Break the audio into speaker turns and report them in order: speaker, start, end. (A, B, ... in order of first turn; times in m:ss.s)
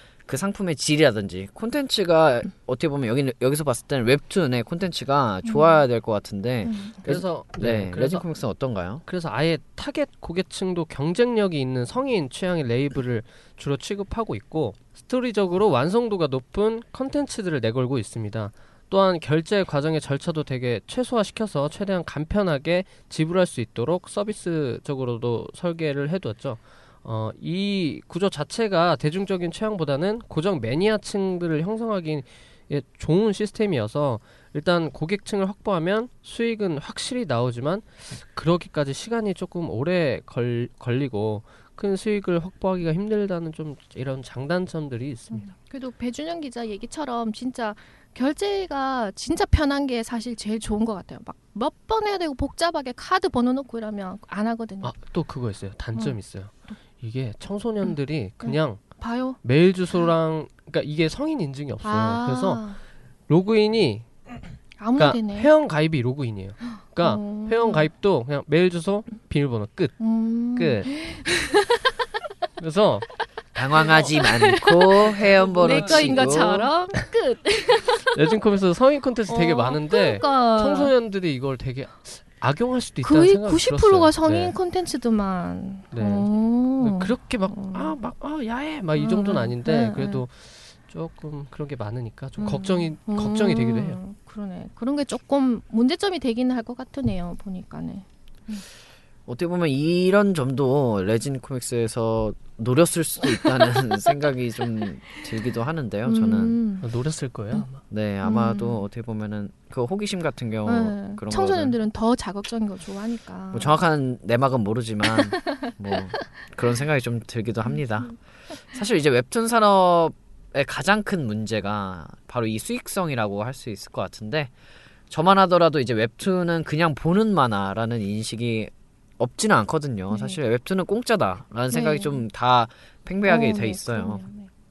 0:00.2-0:09.0 A
0:06.6-0:07.0 B
0:07.0-0:08.2 C
0:09.0-0:45.5 C
0:45.3-0:55.0 B
0:54.8-1:02.6 C
0:55.9-0:56.8 B
0:57.8-0:59.4 B
1:01.8-1:02.8 B
1:03.3-1:04.3 C
1:04.8-1:05.5 B
1:05.0-1:10.0 C
1:06.8-1:07.9 B
1:10.0-1:11.7 B
1:10.5-1:10.9 C
1:12.6-1:13.1 C
1:13.5-1:16.7 A
1:15.6-1:16.4 C
1:15.6-1:18.1 B
1:18.1-1:24.6 C
1:19.3-1:20.9 B
1:23.0-1:27.9 B
1:25.9-1:34.0 C
1:29.0-1:30.2 B
1:32.4-1:38.6 B
1:39.3-1:46.6 A
1:46.0-1:46.8 B
1:46.8-1:47.8 C
1:47.9-1:51.8 A
1:48.2-1:48.8 B
1:50.6-1:53.8 B
1:53.5-2:04.5 A
2:05.1-2:14.2 A
2:10.1-2:10.4 B
2:11.7-2:12.2 B
2:13.2-2:14.5 B